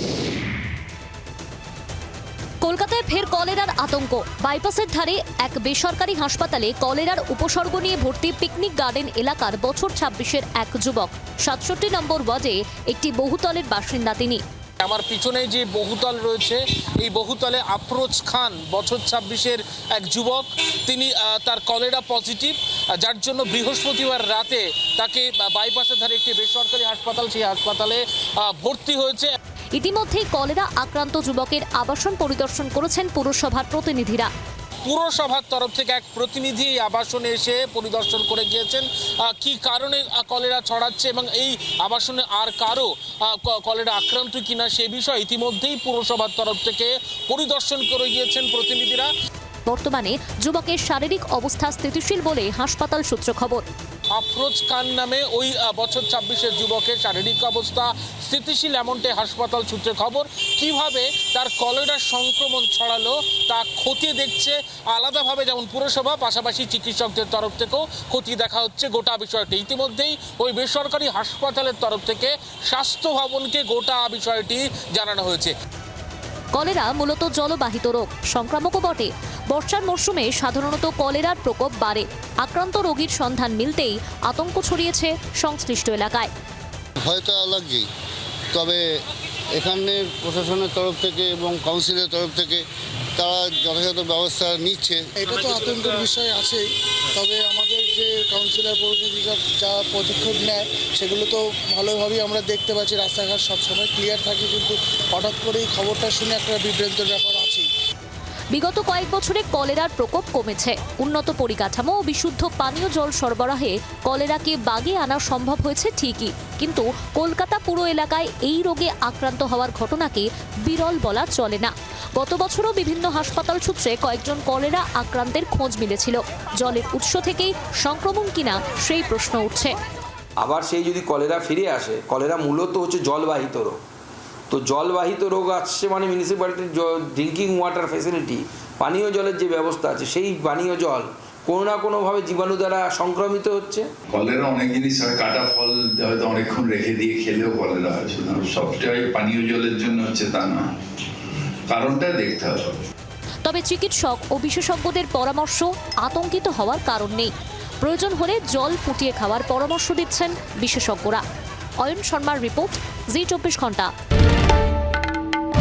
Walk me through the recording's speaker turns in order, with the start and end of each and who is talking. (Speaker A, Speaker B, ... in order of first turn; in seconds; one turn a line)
Speaker A: 2.7-14.3
Speaker B: 14.8-29.4
Speaker A: 29.8-34.3
Speaker B: 34.9-49.1
Speaker A: 49.7-53.6
Speaker B: 54.1-75.5
Speaker A: 76.6-86.3
Speaker C: 87.0-87.9
Speaker C: 88.5-88.9
Speaker C: 89.5-92.7
Speaker C: 93.2-95.1
Speaker D: 95.2-107.7
Speaker A: 108.5-129.7
Speaker E: 130.4-133.8
Speaker E: 134.5-143.9
Speaker F: 144.1-150.7
Speaker F: 151.7-152.8
Speaker A: 153.5-157.3
Speaker A: 157.8-161.2
Speaker A: 161.8-163.9